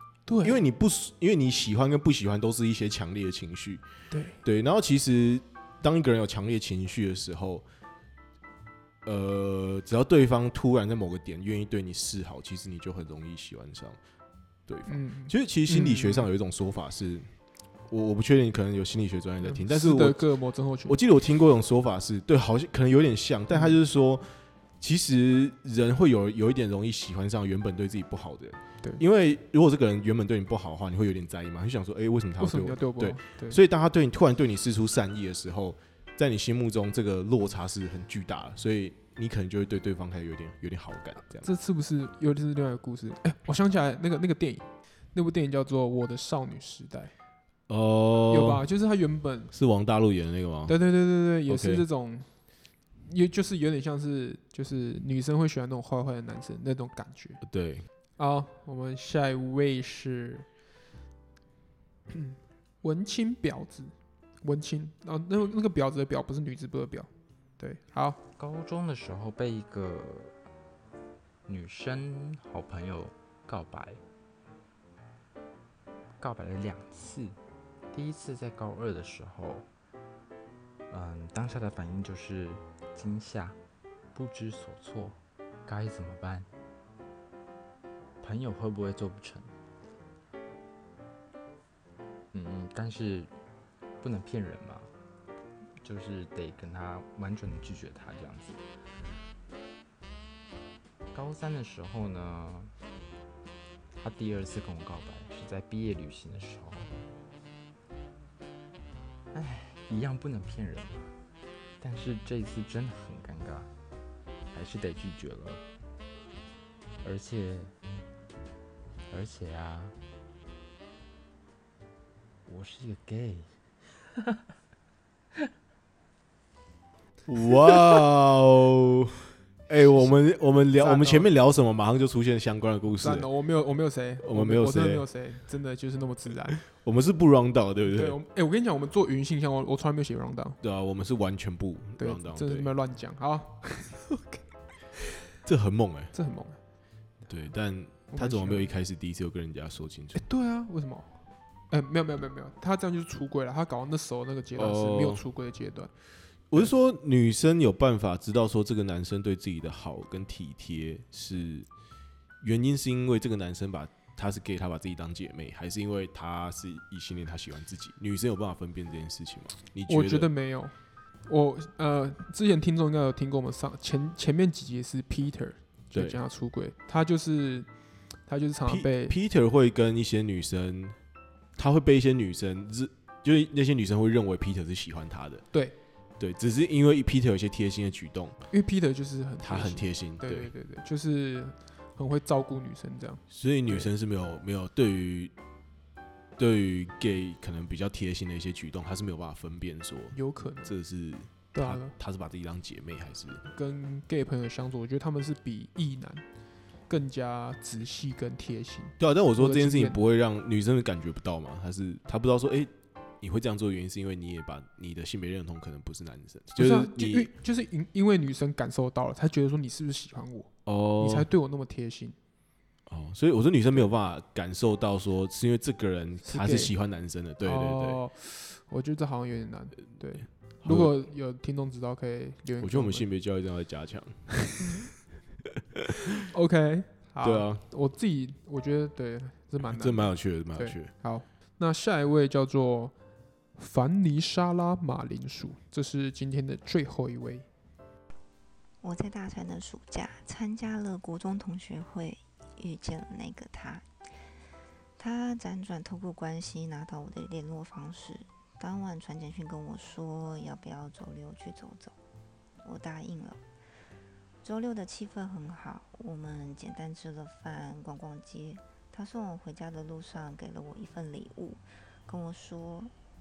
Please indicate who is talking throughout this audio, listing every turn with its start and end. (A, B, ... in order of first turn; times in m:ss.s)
0:00.3-0:00.6 A
0:00.4-0:03.9 B
0:04.1-0:04.4 A
0:04.4-0:07.7 B
0:09.0-0:14.0 B
0:14.7-0:17.3 B
0:14.9-0:16.3 A
0:17.9-0:20.3 B
0:19.4-0:21.0 A
0:20.9-0:41.5 B
0:23.5-0:23.8 A
0:32.4-0:33.6 A
0:41.4-0:47.1 A
0:47.7-0:48.6 B
0:48.3-0:49.5 A
0:49.5-0:51.8 B
0:50.7-0:57.4 A
0:57.4-0:57.9 B
0:58.2-1:00.5 A
1:02.1-1:08.2 A
1:08.4-1:10.4 C
1:11.5-1:14.0 C
1:16.2-1:17.4 C
1:17.9-1:19.7 C
1:20.9-1:23.6 C
1:24.1-1:26.5 C
1:28.2-1:29.5 C
1:32.3-1:33.3 C
1:34.0-1:34.9 C
1:35.8-1:38.6 C
1:41.1-1:42.7 C
1:44.0-1:46.9 C
1:49.3-1:51.1 C
1:51.8-1:53.7 C
1:54.5-1:55.6 C
1:57.0-1:57.7 C
1:59.1-2:00.0 C
2:02.4-2:03.5 C
2:07.3-2:13.3 B
2:10.8-2:11.3 A
2:13.0-2:16.6 A
2:14.2-2:15.0 B
2:16.6-2:18.2 B
2:17.9-2:20.6 A
2:20.6-2:22.7 B
2:22.0-2:24.5 A
2:25.4-2:26.1 B
2:26.1-2:26.6 A
2:27.3-2:30.3 B
2:28.1-2:28.7 A
2:30.2-2:35.9 A
2:34.6-2:35.2 B
2:36.5-2:41.7 B
2:42.4-2:50.3 B
2:49.9-2:59.2 A
2:55.9-2:56.2 B
2:58.7-3:01.0 B
3:01.6-3:05.4 B
3:06.2-3:08.4 B
3:08.5-3:13.9 A
3:09.4-3:10.5 B
3:13.3-3:15.3 B
3:16.4-3:23.4 B
3:20.1-3:20.8 A
3:21.5-3:22.0 A
3:23.5-3:26.3 A
3:26.9-3:30.0 A
3:29.0-3:37.3 B
3:36.6-3:42.2 A
3:40.7-3:41.3 B
3:42.9-3:48.0 B
3:46.2-3:46.8 A
3:47.4-3:53.1 A
3:50.6-3:51.0 B
3:52.6-3:54.3 B
3:56.3-4:02.9 A
3:57.2-3:57.6 B
3:59.6-4:00.9 B
4:03.6-4:07.5 A
4:08.8-4:13.9 D
4:15.0-4:22.0 D
4:22.6-4:23.4 D
4:24.4-4:32.9 D